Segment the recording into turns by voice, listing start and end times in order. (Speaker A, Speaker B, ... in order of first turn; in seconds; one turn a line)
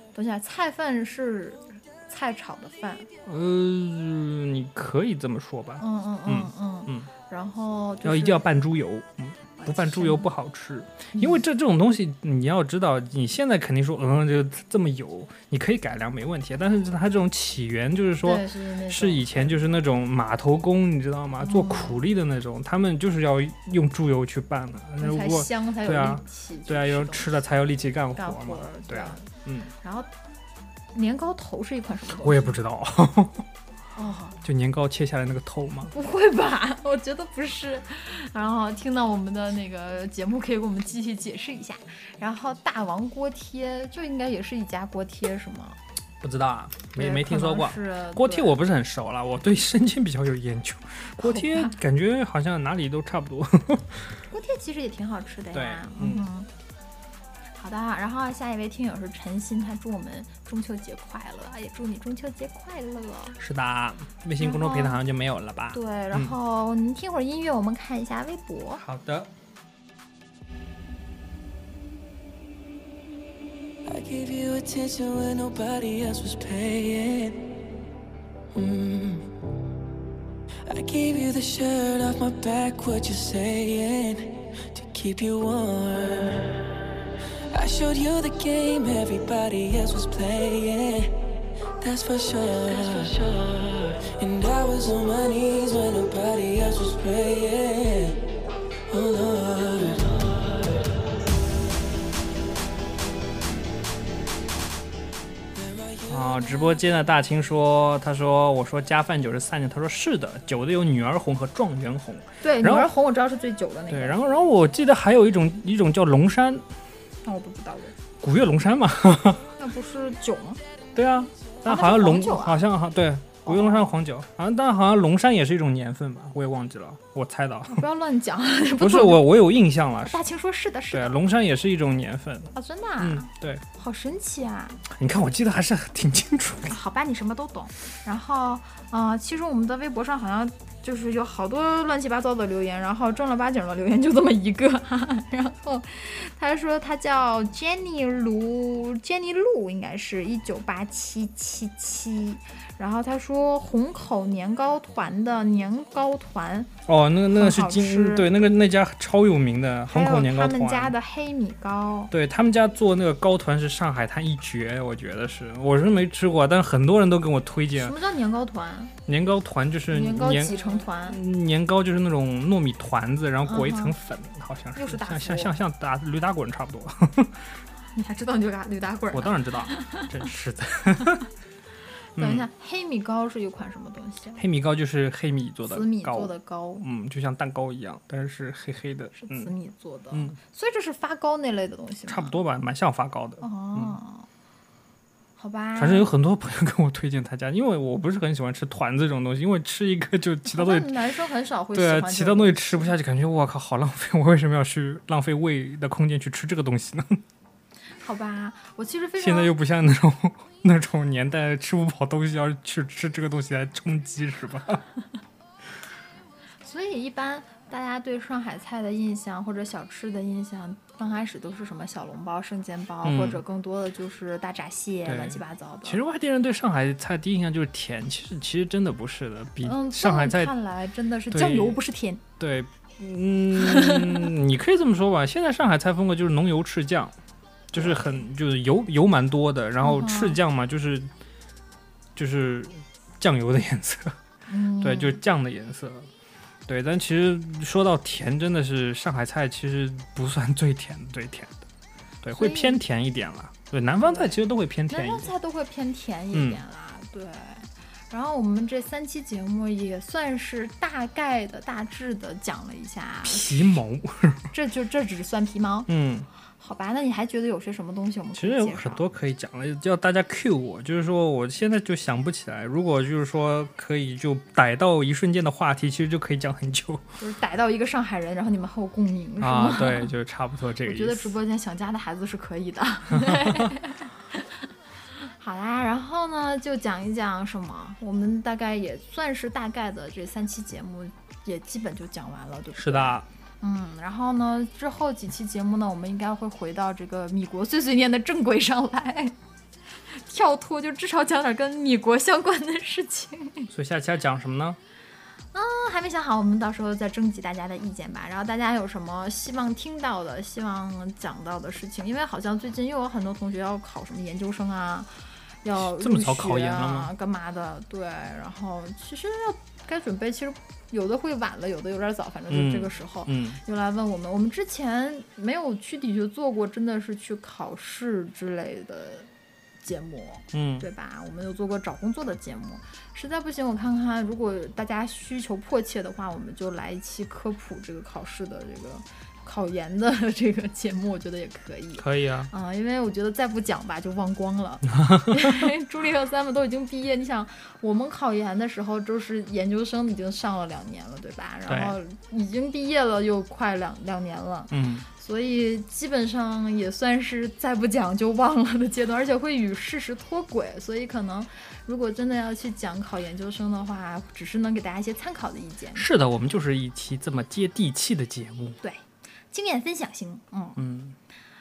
Speaker A: 0.1-3.1
Speaker B: 3.2-7.1
Speaker A: 5.8-8.4
Speaker B: 8.0-29.7
Speaker A: 9.6-10.3
Speaker A: 11.1-11.4
Speaker A: 18.2-19.6
Speaker A: 21.4-22.0
Speaker A: 25.0-27.4
Speaker A: 28.1-30.1
Speaker A: 30.9-32.6
Speaker B: 32.1-33.4
Speaker A: 34.0-34.4
Speaker B: 34.4-35.9
Speaker A: 35.9-45.8
Speaker B: 46.2-54.2
Speaker A: 46.9-48.6
Speaker A: 51.2-51.8
Speaker A: 54.3-56.5
Speaker B: 55.5-56.2
Speaker A: 57.6-63.4
Speaker B: 63.4-66.3
Speaker A: 64.4-65.0
Speaker A: 65.7-68.8
Speaker B: 68.8-69.3
Speaker C: 73.8-77.5
Speaker C: 78.5-79.4
Speaker C: 80.7-86.8
Speaker C: 87.5-91.2
Speaker C: 91.8-98.2
Speaker C: 98.9-101.1
Speaker C: 105.5-106.7
Speaker B: 106.1-112.9
Speaker A: 112.4-114.2
Speaker B: 113.9-116.6
Speaker A: 117.2-117.9
Speaker B: 118.2-119.5
Speaker A: 119.6-120.6
Speaker B: 120.9-127.8
Speaker A: 121.7-122.6
Speaker A: 123.4-124.0
Speaker A: 127.7-129.3
Speaker B: 128.8-130.2
Speaker A: 130.0-131.2
Speaker B: 130.9-133.6
Speaker A: 132.5-134.8
Speaker B: 134.9-136.8
Speaker A: 136.7-156.7
Speaker B: 156.8-160.9
Speaker A: 157.3-158.3
Speaker A: 159.9-162.1
Speaker B: 162.1-167.9
Speaker A: 167.7-168.9
Speaker B: 169.1-177.5
Speaker A: 169.9-171.2
Speaker A: 173.4-173.9
Speaker A: 174.7-175.5
Speaker A: 177.9-180.2
Speaker B: 179.1-181.2
Speaker B: 182.2-182.5
Speaker A: 182.2-184.4
Speaker B: 184.4-189.5
Speaker A: 185.7-186.8
Speaker A: 189.1-192.4
Speaker B: 192.1-193.9
Speaker A: 193.4-194.3
Speaker A: 195.4-196.1
Speaker B: 195.8-200.9
Speaker A: 200.5-202.9
Speaker B: 201.7-207.2
Speaker A: 208.0-209.5
Speaker B: 209.2-214.8
Speaker A: 216.6-226.0
Speaker B: 223.0-223.4
Speaker B: 225.1-230.5
Speaker A: 229.6-232.2
Speaker B: 231.3-231.8
Speaker B: 232.4-237.2
Speaker A: 233.6-234.2
Speaker B: 237.7-241.1
Speaker A: 239.8-240.4
Speaker B: 242.1-244.2
Speaker A: 244.5-245.2
Speaker B: 244.8-246.1
Speaker B: 246.7-251.6
Speaker B: 252.2-255.3
Speaker A: 252.3-252.8
Speaker A: 254.9-263.8
Speaker B: 256.3-256.6
Speaker B: 263.2-264.5
Speaker A: 264.5-265.9
Speaker B: 265.9-266.3
Speaker A: 266.6-269.0
Speaker B: 268.4-277.0
Speaker A: 277.2-280.1
Speaker B: 279.4-281.3
Speaker A: 280.8-284.6
Speaker B: 283.1-283.7
Speaker A: 285.1-299.3
Speaker B: 292.8-293.3
Speaker A: 300.1-303.7
Speaker B: 303.7-304.8
Speaker A: 305.5-315.1
Speaker A: 315.6-329.3
Speaker B: 315.8-317.1
Speaker B: 322.5-323.6
Speaker A: 329.8-366.0
Speaker B: 330.5-330.9
Speaker B: 342.0-342.5
Speaker B: 344.9-345.7
Speaker B: 351.7-351.9
Speaker B: 354.7-355.1
Speaker B: 365.9-368.8
Speaker A: 368.8-370.8
Speaker B: 370.8-371.1